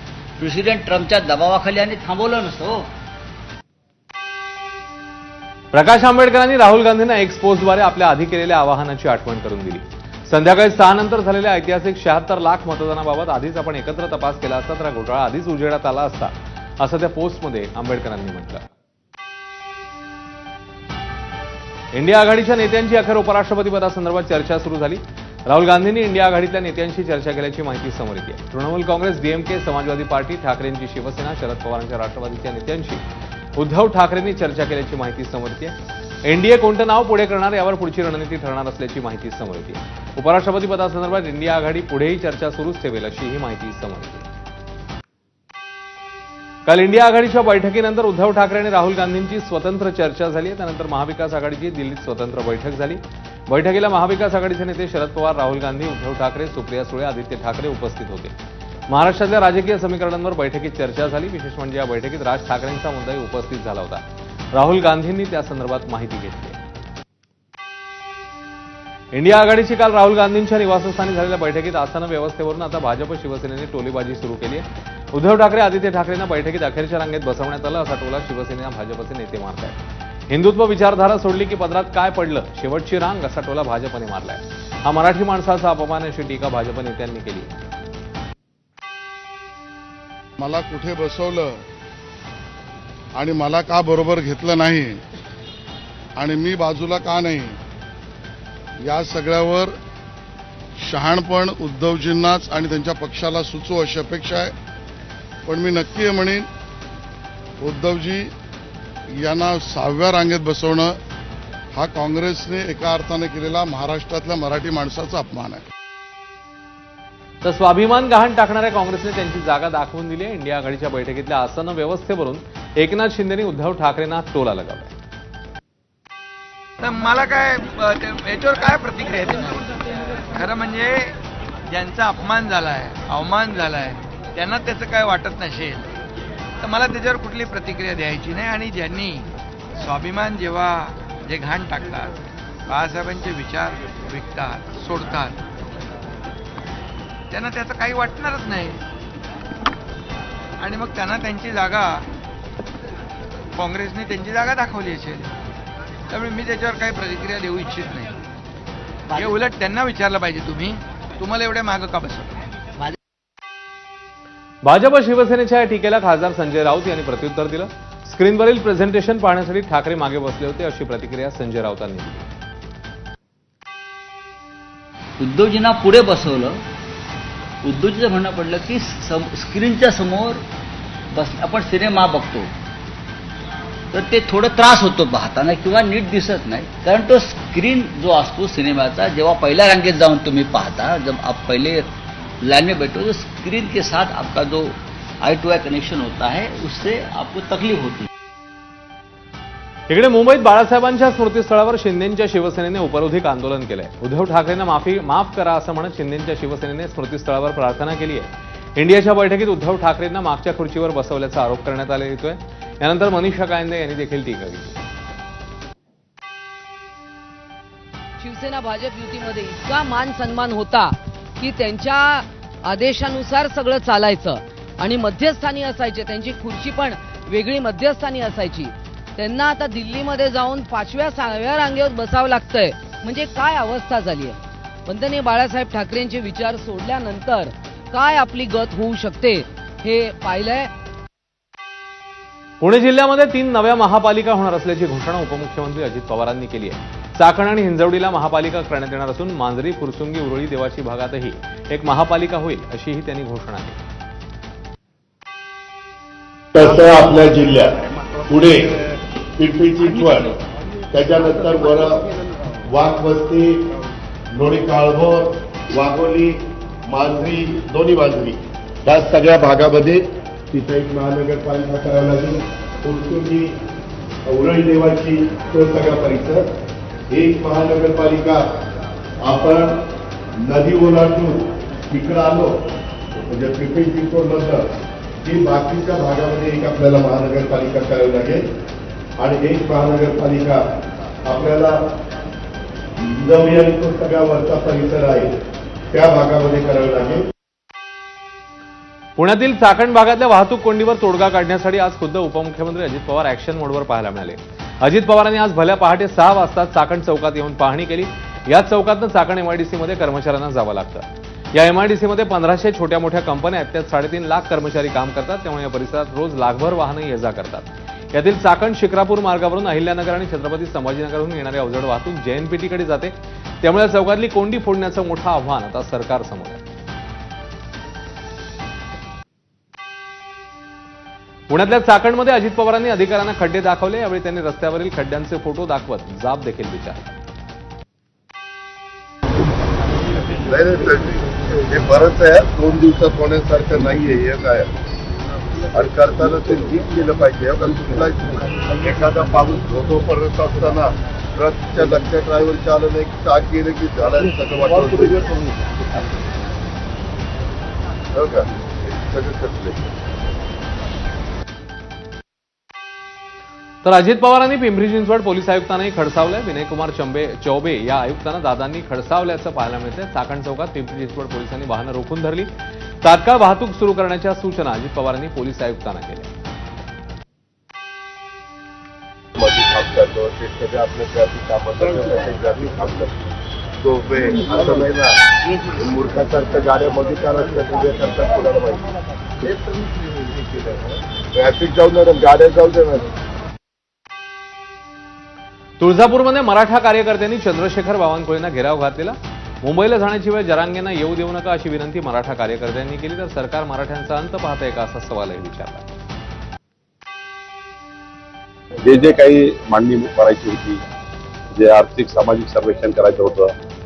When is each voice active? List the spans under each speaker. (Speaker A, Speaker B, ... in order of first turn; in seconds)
Speaker A: 0.4-2.9, 175.2-176.6, 177.6-180.4, 181.1-182.5, 183.9-191.9, 192.4-198.1
Speaker B: 5.7-18.6, 21.9-33.0, 33.6-44.3, 46.6-58.3, 58.9-64.0, 64.5-66.6, 69.1-79.8, 80.3-87.5, 117.4-124.9, 164.6-172.3, 199.9-214.8, 242.6-253.8, 299.2-326.6, 331.5-337.2, 363.8-372.5, 373.0-376.3, 395.8-405.9
Speaker C: 90.4-91.6, 93.1-95.0, 96.2-97.6, 98.8-99.7, 100.8-104.5, 105.5-106.5, 107.6-108.3, 109.2-111.0, 111.7-115.6
Speaker D: 126.8-129.6, 130.3-131.1, 131.7-135.9, 136.6-142.1, 142.7-145.4, 147.3-148.8, 150.6-152.0, 153.5-155.3, 156.1-158.1, 159.1-162.3
Speaker E: 218.2-240.7
Speaker F: 256.5-257.7, 258.3-258.8, 259.4-260.3, 260.9-262.0, 262.7-263.5, 264.3-273.5, 274.2-276.4, 277.1-278.4, 279.2-279.7, 280.4-282.5, 283.3-284.6, 285.2-288.4, 289.2-290.6, 291.2-291.8, 293.0-295.3, 295.9-297.2, 340.4-344.7, 345.7-355.3, 358.1-359.9, 379.4-383.1, 383.8-385.2, 385.8-388.8, 391.3-393.0
Speaker G: 408.8-410.8, 411.5-413.5